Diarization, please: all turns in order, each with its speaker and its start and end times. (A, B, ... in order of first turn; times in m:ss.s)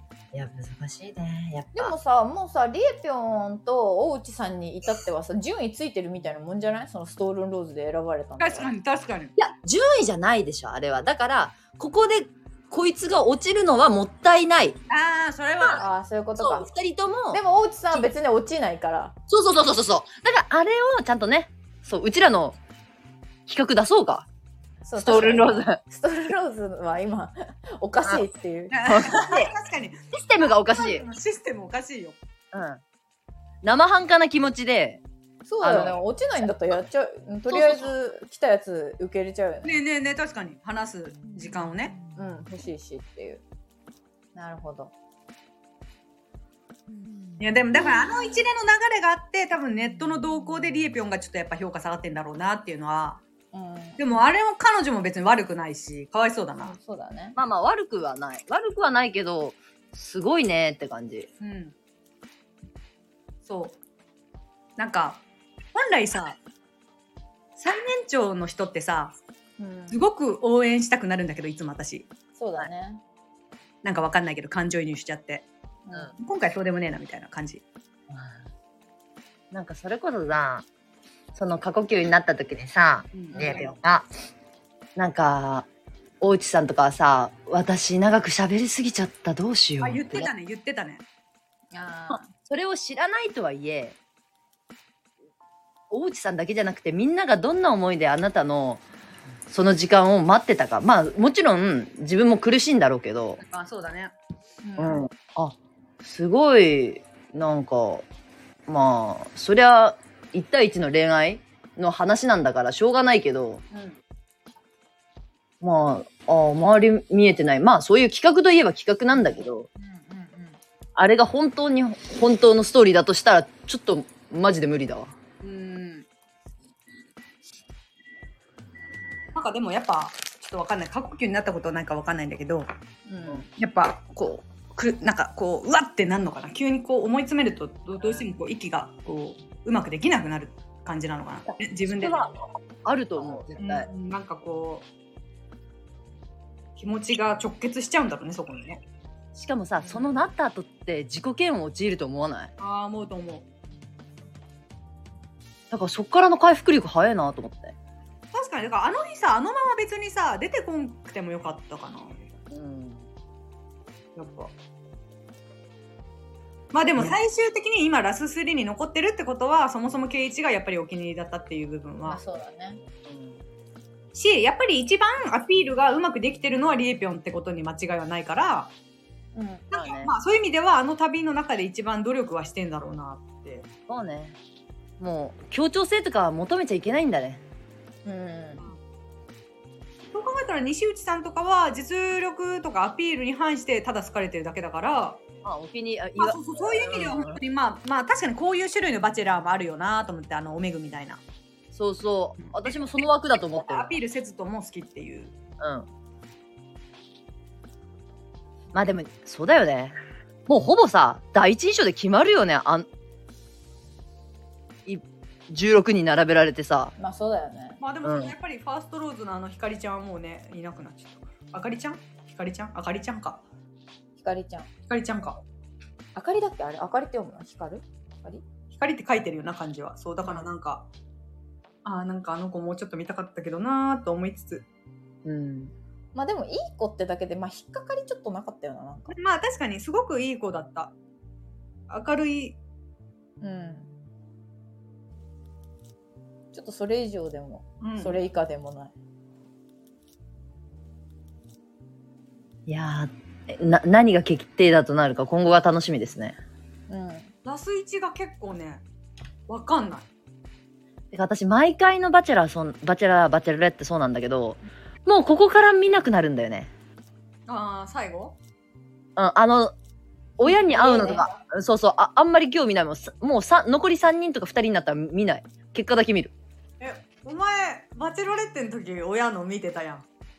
0:00.3-0:01.9 A
0:01.7-0:08.7 B
0:08.4-0:09.4 C
0:09.4-0:14.8 A
0:14.9-0:15.8 C
0:15.7-0:16.7 B
0:16.4-0:17.4 A
0:17.3-0:19.2 B
0:19.3-0:22.6 A
0:23.5-0:24.3 A
0:24.8-0:28.8 B
0:25.0-0:25.8 A
0:28.7-0:30.1 C
0:28.8-0:29.5 A
0:30.1-0:31.0 A
0:30.6-0:32.2 C
0:32.5-0:32.8 A
0:33.6-0:35.0 A
0:35.4-0:39.8 B
0:35.6-0:36.0 A
0:39.6-0:42.0 C
0:42.1-0:43.4 B
0:44.4-0:44.9 B
0:47.4-0:53.2 C
0:53.5-0:54.1 B
0:54.0-0:56.8 C
0:56.6-0:57.4 B
0:57.4-1:01.3 A
1:01.4-1:01.7 C
1:03.4-1:03.8 C
1:04.8-1:06.4 C
1:07.6-1:09.1 C
1:09.6-1:10.0 B
1:09.9-1:12.1 C
1:12.4-1:13.0 B
1:13.8-1:15.5 C
1:15.9-1:16.2 B
1:16.2-1:17.6 C
1:18.1-1:18.4 A
1:19.5-1:20.7 A
1:21.3-1:24.1 A
1:23.1-1:23.7 C
1:23.3-1:23.7 B
1:25.0-1:25.7 A
1:26.2-1:30.3 A
1:29.8-1:31.0 C
1:31.7-1:32.3 B
1:32.1-1:34.0 A
1:35.9-1:38.8 A
1:39.5-1:43.4 A
1:43.4-1:44.1 C
1:44.6-1:45.0 B
1:44.8-1:48.1 A
1:48.7-1:53.6 A
1:55.6-1:59.7 A
1:59.1-2:00.6 B
2:01.0-2:05.1 A
2:05.4-2:06.1 C
2:09.4-2:12.7 C
2:13.1-2:13.4 B
2:13.5-2:22.2 C
2:21.9-2:23.9 A
2:23.6-2:24.9 C
2:26.8-2:28.8 C
2:29.4-2:32.5 A
2:32.6-2:33.4 C
2:35.7-2:37.8 A
2:38.3-2:42.3 C
2:42.5-2:43.1 A
2:44.2-2:44.5 C
2:46.7-2:52.2 C
2:52.1-2:52.8 B
2:53.0-2:53.4 A
2:54.1-2:58.7 C
2:59.4-2:59.7 B
2:59.7-3:00.1 A
2:59.7-3:03.7 C
3:03.9-3:04.4 A
3:05.0-3:07.4 A
3:08.1-3:08.7 B
3:10.1-3:15.2 C
3:15.4-3:17.4 A
3:16.2-3:21.2 C
3:21.7-3:23.9 A
3:22.4-3:22.7 C
3:23.4-3:25.3 C
3:25.6-3:25.9 A
3:28.7-3:30.0 A
3:30.5-3:32.9 A
3:34.8-3:36.9 A
3:37.0-3:37.8 B
3:37.8-3:43.4 C
3:38.0-3:38.3 A
3:44.2-3:44.7 B
3:44.9-3:45.4 C
3:46.1-3:48.4 B
3:48.7-3:50.9 C
3:51.8-3:54.6 C
3:55.2-3:55.7 A
3:56.1-3:59.1 B
3:59.1-4:00.9 C
4:01.9-4:02.6 C
4:03.4-4:03.9 B
4:06.5-4:08.9 B
4:07.8-4:08.2 C
4:12.7-4:16.4 A
4:16.9-4:17.3 B
4:17.4-4:18.8 C
4:19.5-4:20.1 C
4:21.1-4:26.7 A
4:27.5-4:28.4 C
4:29.2-4:29.7 A
4:30.4-4:36.3 A
4:30.4-4:31.4 B
4:36.8-4:40.0 C